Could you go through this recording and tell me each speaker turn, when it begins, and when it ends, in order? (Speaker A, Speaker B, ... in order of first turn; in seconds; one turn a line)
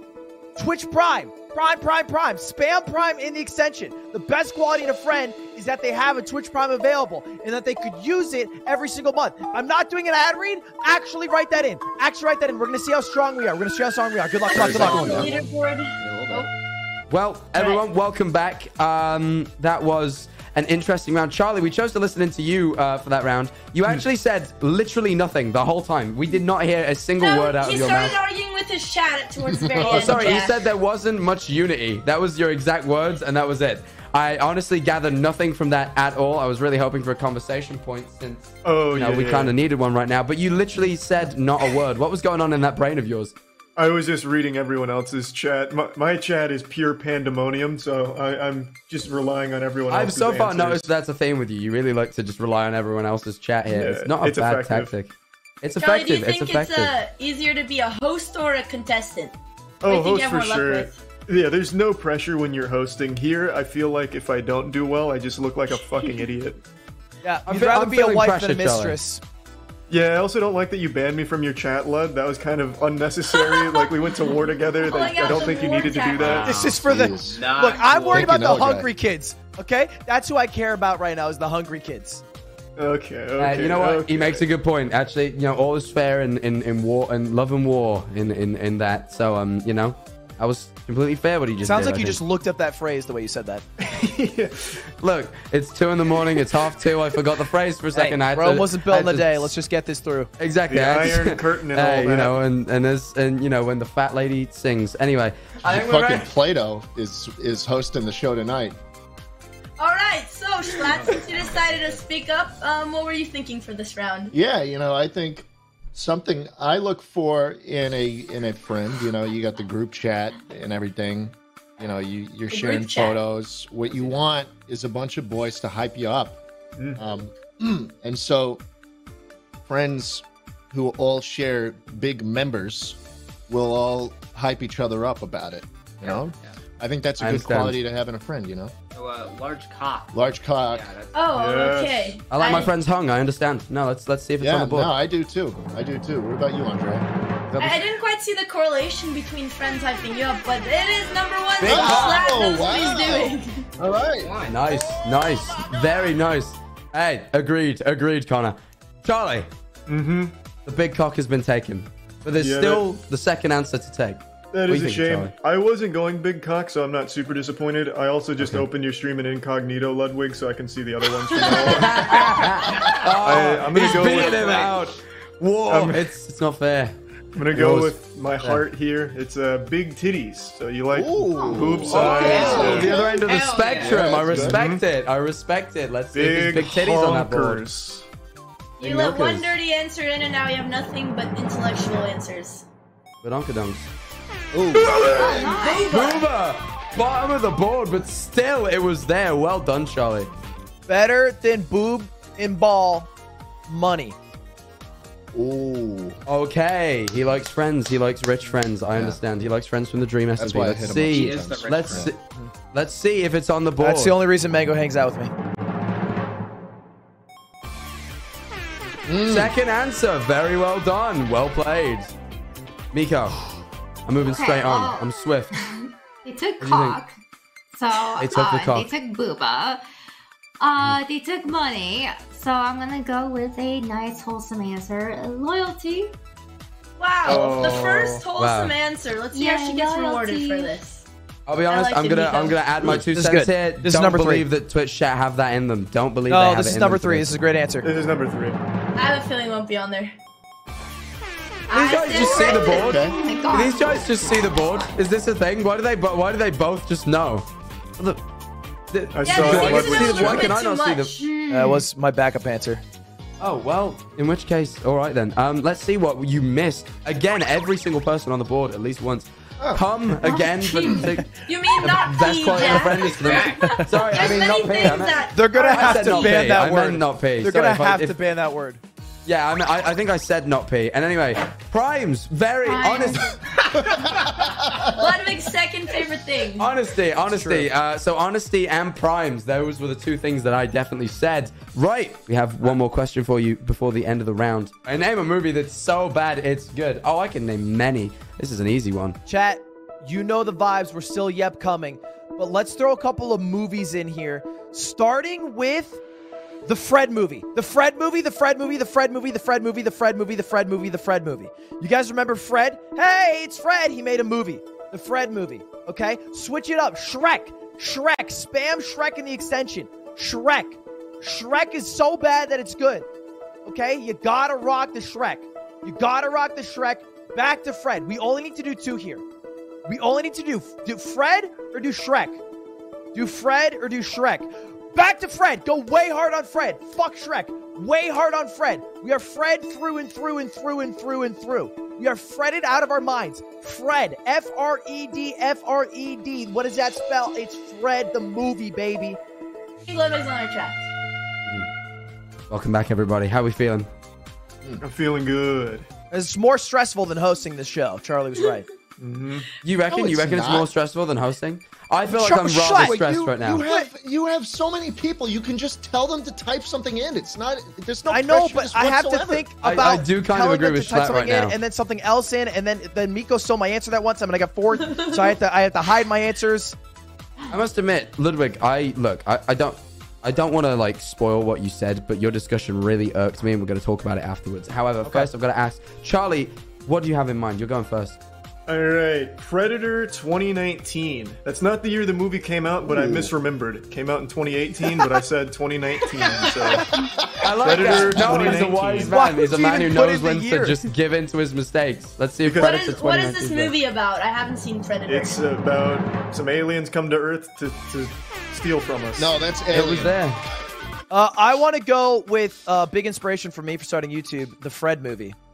Speaker A: 0.6-15.2
Speaker B: 14.5-16.5
Speaker C: 14.5-16.5
Speaker D: 14.5-15.4
Speaker E: 17.1-28.2
Speaker B: 17.5-17.8
Speaker B: 27.2-30.6
Speaker D: 29.4-30.4
Speaker E: 29.8-43.3
Speaker F: 38.6-39.5
Speaker F: 43.8-50.9
Speaker E: 49.9-56.9
Speaker F: 53.7-54.9
Speaker B: 55.8-61.0
Speaker F: 59.8-66.6
Speaker B: 65.8-66.2
Speaker A: 67.2-69.2
Speaker E: 67.5-69.0
Speaker F: 69.9-76.6
Speaker B: 73.3-76.4
Speaker C: 76.1-78.4
Speaker A: 76.4-82.2
Speaker D: 76.6-77.4
Speaker D: 78.1-78.9
Speaker F: 82.8-84.5
Speaker E: 83.4-92.2
Speaker A: 91.6-93.6
Speaker F: 93.8-94.8
Speaker E: 95.0-99.5
Speaker A: 97.9-100.3
Speaker E: 100.4-106.3
Speaker F: 100.7-102.4
Speaker D: 105.6-108.8
Speaker B: 109.8-114.3
Speaker C: 110.7-112.0
Speaker D: 114.3-126.4
Speaker B: 122.5-123.2
Speaker C: 123.8-124.2
Speaker D: 127.0-128.6
Speaker D: 129.7-138.7
Speaker C: 136.0-136.6
Speaker E: 137.2-137.8
Speaker C: 138.9-141.2
Speaker D: 140.1-140.9
Speaker B: 141.1-142.7
Speaker F: 141.3-142.2
Speaker E: 142.3-144.9
Speaker D: 144.4-147.1
Speaker E: 147.5-147.8
Speaker B: 147.6-153.7
Speaker D: 151.6-154.3
Speaker E: 151.6-152.3
Speaker C: 154.1-154.6
Speaker E: 154.5-159.5
Speaker F: 159.9-160.3
Speaker E: 160.7-165.3
Speaker F: 162.3-162.9
Speaker F: 164.5-172.3
Speaker E: 168.4-168.7
Speaker D: 171.4-172.1
Speaker E: 171.6-177.0
Speaker D: 172.7-173.0
Speaker F: 173.2-174.7
Speaker C: 173.8-174.8
Speaker F: 175.7-176.1
Speaker F: 177.3-183.0
Speaker E: 177.5-178.6
Speaker D: 180.9-182.7
Speaker G: 181.3-182.9
Speaker E: 181.8-187.6
Speaker C: 182.1-184.2
Speaker D: 183.7-184.6
Speaker F: 184.3-184.8
Speaker F: 186.1-188.0
Speaker B: 188.8-192.7
Speaker E: 188.8-189.6
Speaker E: 193.2-193.9
Speaker D: 194.5-195.5
Speaker B: 194.8-196.2
Speaker G: 194.9-196.1
Speaker E: 195.7-200.3
Speaker A: 200.9-203.1
Speaker A: 203.7-204.1
Speaker D: 205.3-206.2
Speaker E: 206.3-212.2
Speaker D: 208.9-209.2
Speaker D: 210.4-212.1
Speaker C: 211.1-212.1
Speaker E: 212.7-214.2
Speaker A: 213.8-215.3
Speaker D: 219.1-219.5
Speaker E: 219.2-222.1
Speaker E: 222.9-223.5
Speaker E: 224.1-225.5
Speaker G: 224.2-227.1
Speaker E: 226.6-227.0
Speaker G: 227.7-229.8
Speaker E: 228.2-228.9
Speaker G: 230.6-236.1
Speaker B: 237.0-241.1
Speaker F: 237.2-238.2
Speaker E: 237.3-238.7
Speaker G: 239.3-240.7
Speaker E: 241.5-247.4
Speaker B: 241.7-242.7
Speaker A: 242.9-244.5
Speaker A: 246.3-247.8
Speaker F: 247.8-248.6
Speaker B: 248.9-250.1
Speaker B: 251.7-253.1
Speaker E: 251.7-258.2
Speaker G: 251.8-254.9
Speaker D: 252.8-253.2
Speaker E: 258.9-261.1
Speaker F: 259.1-260.6
Speaker B: 259.2-261.2
Speaker G: 261.1-261.9
Speaker A: 261.5-262.8
Speaker E: 263.4-278.2
Speaker D: 269.6-269.8
Speaker B: 270.2-276.6
Speaker C: 272.8-273.8
Speaker A: 275.3-278.8
Speaker E: 279.2-283.3
Speaker G: 282.6-283.4
Speaker B: 282.7-283.3
Speaker D: 283.8-285.0
Speaker B: 284.8-286.7
Speaker E: 286.6-299.2
Speaker A: 287.3-287.7
Speaker A: 299.2-306.0
Speaker A: 306.6-323.1
Speaker A: 323.6-329.2
Speaker A: 329.9-332.4
Speaker A: 333.1-349.2
Speaker B: 349.9-350.9
Speaker E: 352.5-353.9
Speaker F: 354.8-355.9
Speaker A: 356.1-358.7
Speaker F: 359.0-359.5
Speaker E: 359.6-363.6
Speaker D: 359.9-360.7
Speaker A: 362.1-363.0
Speaker D: 362.7-369.5
Speaker A: 363.6-363.9
Speaker A: 368.1-376.8
Speaker E: 369.6-371.6
Speaker E: 377.5-388.2
Speaker A: 385.0-385.3
Speaker F: 388.7-396.9
Speaker D: 392.8-393.3
Speaker D: 396.7-398.4
Speaker E: 397.4-403.8
Speaker F: 397.6-399.1
Speaker A: 398.1-400.9
Speaker F: 402.4-402.9
Speaker B: 402.6-405.4
Speaker F: 405.1-409.4
Speaker D: 409.1-410.2
Speaker E: 409.7-410.4
Speaker A: 411.1-415.3